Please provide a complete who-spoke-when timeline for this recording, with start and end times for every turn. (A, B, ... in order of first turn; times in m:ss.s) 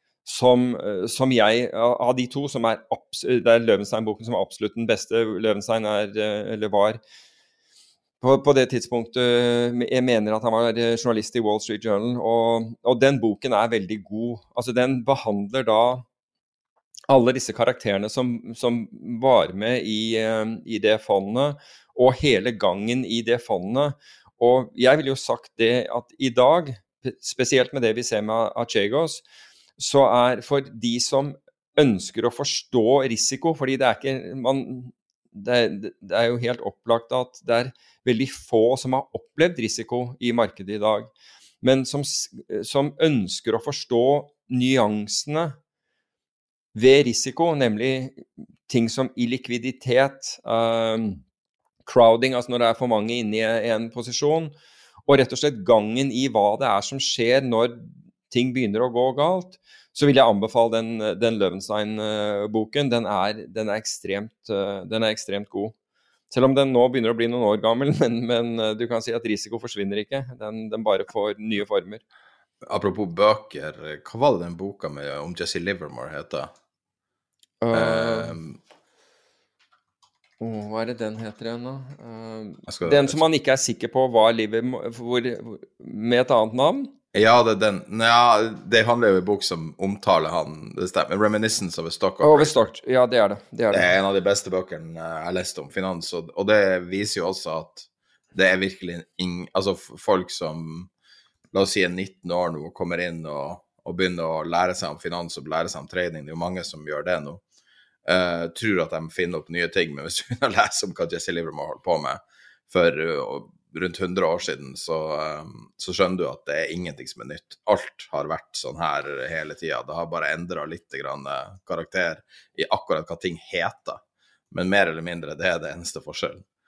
0:00.2-0:07.0 A
0:08.2-0:16.0 A
0:17.1-0:29.2 A
0:29.8-0:41.1 A
0:41.6-0:45.6 A
0:46.7-0:51.2 A
0:51.8-0:54.5 A
0:55.0-1:05.7 A
1:06.3-1:12.0 A
1:12.6-1:16.5 B
1:17.6-1:18.3 A
1:17.7-1:18.6 B
1:20.4-1:26.9 A
1:22.7-1:23.2 B
1:27.1-1:32.5 B
1:32.2-1:33.9 A
1:33.7-1:40.9 B
1:41.5-1:47.4 B
1:48.0-2:04.0 B
2:04.5-2:06.4 B